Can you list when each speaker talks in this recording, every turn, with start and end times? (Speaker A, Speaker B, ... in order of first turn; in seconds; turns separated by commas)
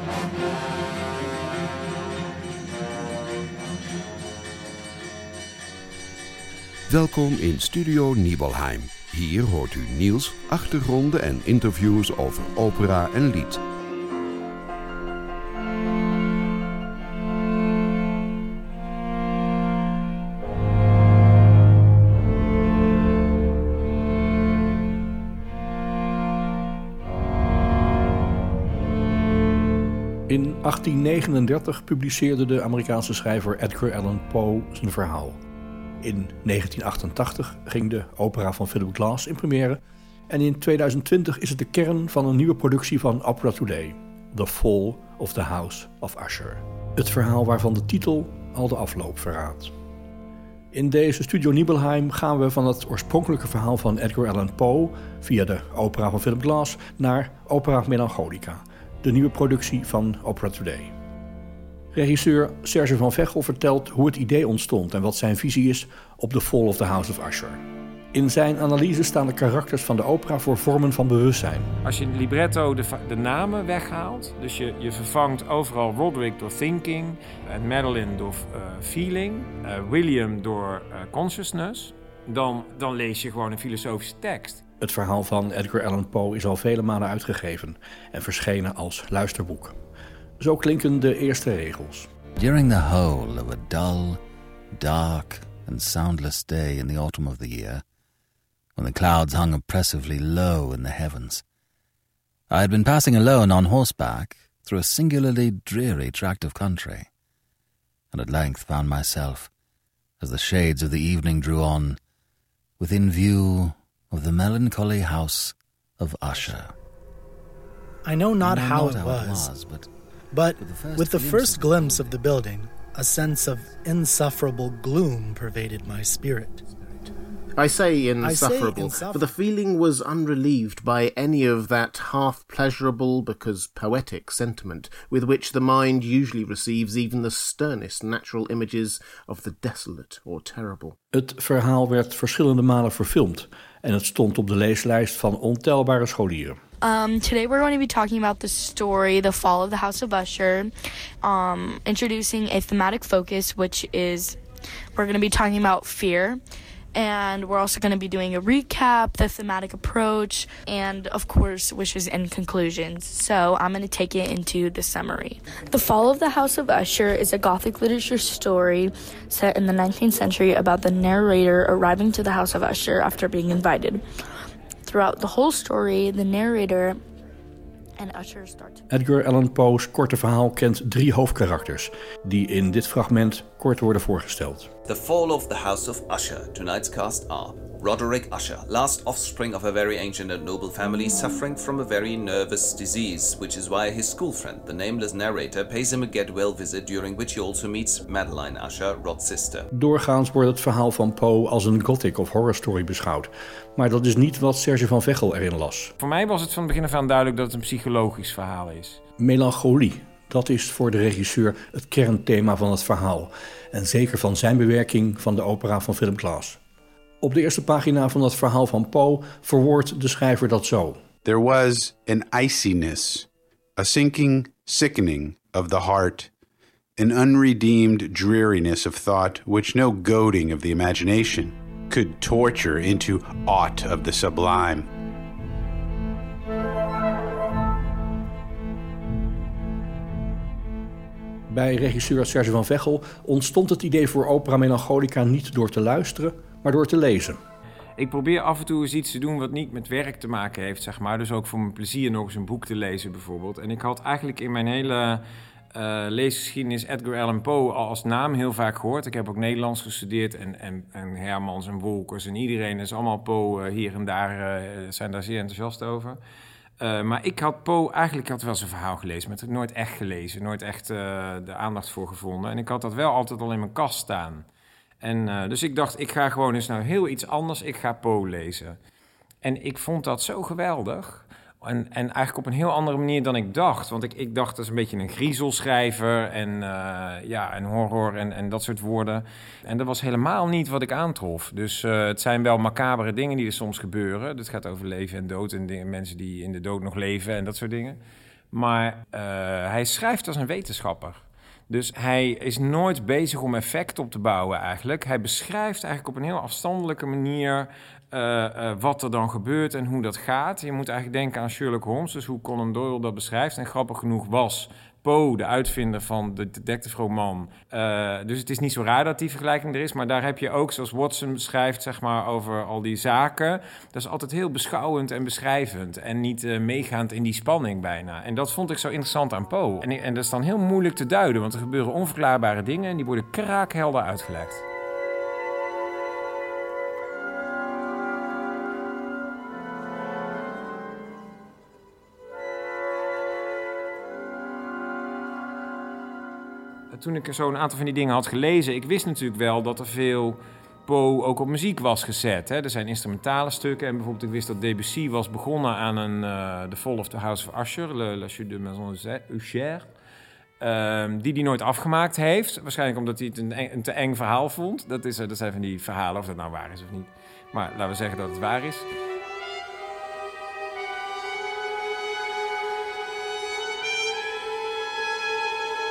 Speaker A: 6.9-13.6, Speaker B: 30.3-35.4, Speaker B: 36.0-49.7, Speaker B: 50.7-60.9, Speaker B: 61.9-67.6, Speaker B: 68.1-71.7, Speaker C: 71.8-84.6, Speaker B: 84.8-89.8, Speaker B: 90.4-92.1, Speaker D: 92.4-94.2, Speaker D: 94.7-97.8, Speaker D: 98.8-101.4, Speaker D: 102.5-107.1, Speaker D: 108.1-109.5, Speaker D: 110.2-112.0, Speaker D: 112.8-116.7, Speaker E: 118.0-119.5, Speaker D: 118.4-119.9, Speaker E: 120.3-126.7, Speaker D: 120.6-122.2, Speaker F: 127.6-141.0, Speaker E: 128.2-129.3, Speaker B: 141.1-146.6, Speaker G: 146.8-150.7, Speaker G: 151.2-154.4, Speaker G: 154.9-156.4, Speaker G: 156.9-174.0, Speaker G: 174.9-177.0, Speaker G: 178.0-178.9, Speaker B: 178.9-184.7, Speaker H: 184.9-199.7, Speaker B: 199.7-205.9, Speaker C: 206.0-209.0, Speaker B: 209.2-216.6, Speaker B: 217.2-221.0, Speaker I: 221.2-226.3, Speaker I: 227.0-234.9, Speaker B: 241.5-247.4, Speaker C: 248.0-255.2, Speaker C: 255.7-266.2, Speaker C: 266.8-274.5, Speaker C: 275.0-278.8, Speaker C: 279.4-298.0, Speaker C: 298.5-334.6, Speaker C: 346.9-359.9, Speaker C: 360.6-368.9